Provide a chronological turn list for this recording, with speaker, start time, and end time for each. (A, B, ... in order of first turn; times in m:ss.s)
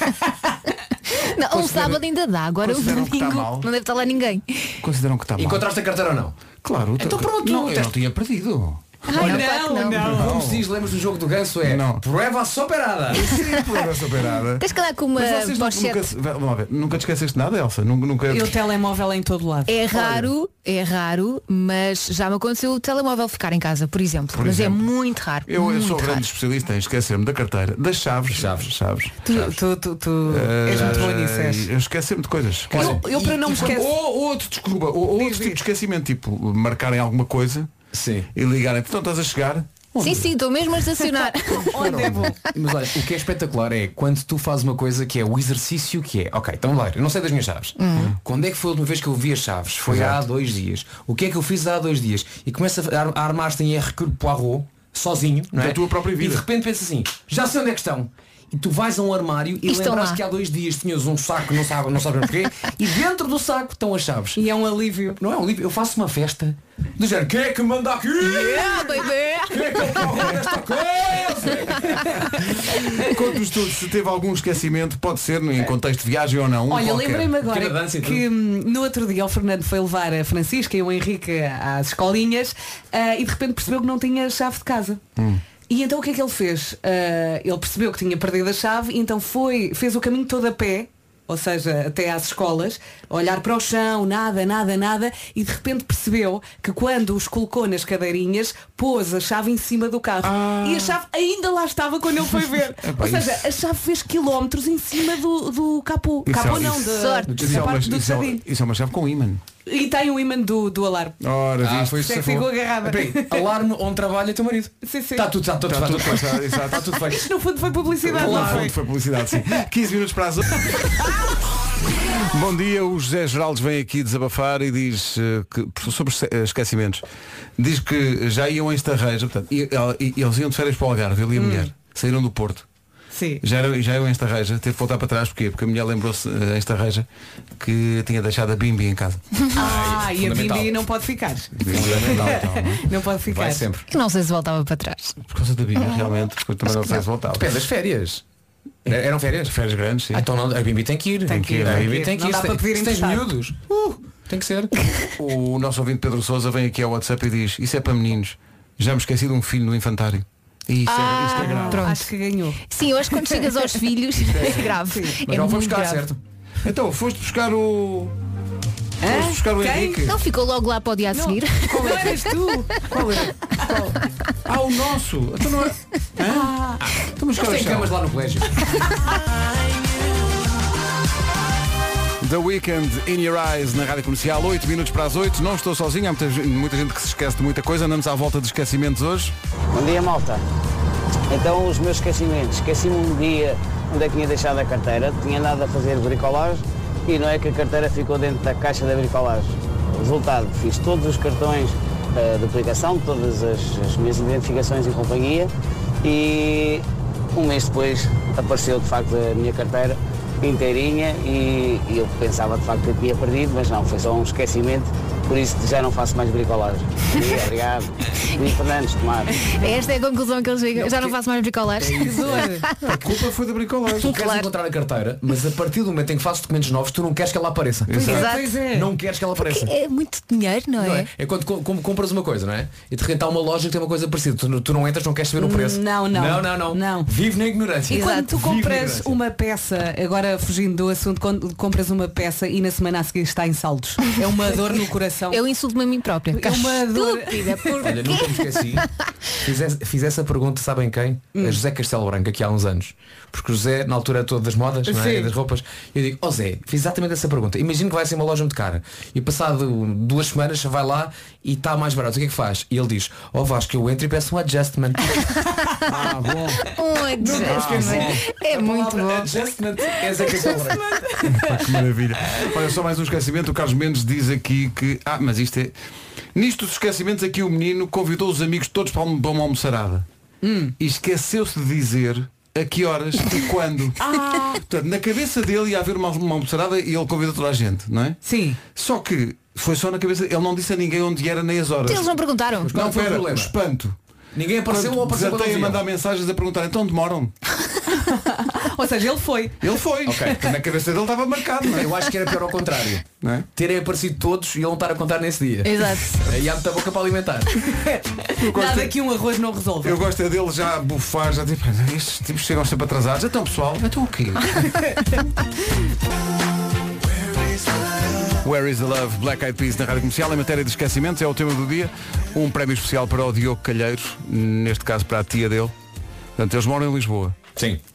0:01.2-0:04.8 A
0:01.5-0:02.0 B
0:02.6-0:03.7 B
0:04.8-0:05.6 B
0:05.4-0:06.4 C
0:06.6-0:09.0 B
0:07.0-0:07.9 C
0:09.1-0:10.3 D
0:09.1-0:10.1 A
0:09.2-0:09.4 C
0:10.0-0:10.6 B
0:10.1-0:13.4 C
0:11.6-0:12.0 B
0:13.1-0:18.6 B
0:14.6-0:16.1 A
0:18.3-0:20.2 D
0:19.7-0:26.2 A
0:24.3-0:24.9 B
0:25.4-0:29.3 B
0:28.3-0:28.7 C
0:29.2-0:31.7 D
0:30.3-0:33.0 B
0:30.7-0:31.1 C
0:32.7-0:33.9 C
0:32.7-0:33.9 D
0:33.5-0:37.7 B
0:35.2-0:35.6 D
0:37.9-0:38.3 C
0:38.3-0:40.3 B
0:40.0-0:42.3 A
0:41.1-0:42.4 D
0:41.8-1:04.4 C
0:47.8-0:48.1 A
0:49.8-0:50.2 B
0:55.6-0:56.4 B
0:59.6-1:00.2 A
1:04.4-1:05.2 D
1:05.2-1:12.1 C
1:08.2-1:10.5 A
1:12.4-1:17.3 B
1:16.7-1:25.0 D
1:17.4-1:18.3 C
1:25.2-1:25.4 B
1:25.7-1:48.4 D
1:40.2-1:41.0 B
1:42.8-1:43.4 B
1:46.3-1:49.4 B
1:46.8-1:47.4 A
1:47.3-1:47.7 C
1:49.6-1:51.2 D
1:51.2-1:52.2 B
1:51.6-1:57.3 C
1:52.0-1:53.5 D
1:54.8-1:55.3 D
1:55.7-1:56.9 B
1:56.8-1:58.8 D
1:58.0-2:00.8 B
1:58.1-1:58.7 C
2:02.3-2:07.0 B
2:07.6-2:12.6 B
2:11.3-2:11.7 D
2:13.1-2:13.4 D
2:13.4-2:17.0 B
2:17.6-2:19.2 B
2:19.5-2:20.8 C
2:19.6-2:23.6 D
2:21.6-2:22.8 B
2:21.7-2:22.5 C
2:23.2-2:23.8 C
2:23.9-2:25.2 A
2:25.3-2:27.5 B
2:25.8-2:26.1 A
2:27.3-2:28.2 C
2:28.8-2:29.6 C
2:29.4-2:30.3 B
2:30.1-2:34.7 C
2:31.3-2:32.0 B
2:31.3-2:33.3 D
2:35.2-2:41.8 B
2:40.9-2:42.1 A
2:41.3-2:42.6 D
2:42.7-2:46.1 A
2:43.2-2:43.7 D
2:44.2-2:44.7 B
2:44.7-2:45.2 D
2:45.2-2:46.2 C
2:46.6-2:48.1 B
2:49.0-2:50.1 D
2:49.0-2:50.2 B
2:50.0-2:52.4 A
2:51.1-2:52.8 D
2:52.8-2:58.0 B
2:56.3-2:56.8 D
2:56.8-2:58.6 C
3:02.2-3:09.3 B
3:09.7-3:10.4 E
3:11.3-3:25.5 E
3:26.0-3:39.4 E
3:39.4-3:43.0 A
3:40.8-3:41.1 C
3:41.8-3:42.5 C
3:42.0-3:42.7 D
3:42.8-3:44.1 B
3:44.0-3:44.5 A
3:44.0-3:49.7 C
3:47.9-3:48.3 B
3:48.0-3:48.5 A
3:48.0-3:48.9 D
3:49.4-3:51.1 A
3:50.8-3:59.2 C
3:55.4-3:57.1 D
3:57.9-4:05.4 D
3:57.9-3:58.3 A
4:05.3-4:08.8 A
4:06.3-4:08.0 D
4:07.8-4:08.9 C
4:09.4-4:25.1 C
4:11.3-4:11.6 D
4:14.9-4:15.3 D
4:25.8-4:26.6 B
4:26.7-4:29.4 A
4:27.2-4:30.9 C
4:27.4-4:28.2 B
4:30.6-4:31.6 D
4:31.2-4:35.7 B
4:36.3-4:40.0 B
4:40.4-4:40.7 D
4:40.8-4:52.1 B
4:44.0-4:44.6 D
4:48.2-4:48.6 D
4:51.8-4:52.7 A
4:52.6-4:54.0 B
4:52.7-4:53.5 C
4:54.3-4:55.8 C
4:54.7-4:57.3 B
4:58.0-4:59.6 D
4:59.6-5:01.9 B
5:00.0-5:00.5 C
5:01.7-5:07.6 C
5:03.2-5:03.5 B
5:05.6-5:06.2 A
5:07.7-5:10.0 D
5:08.4-5:08.9 B
5:09.8-5:14.7 B
5:18.4-5:25.7 B
5:26.4-5:27.4 B
5:27.6-5:27.8 C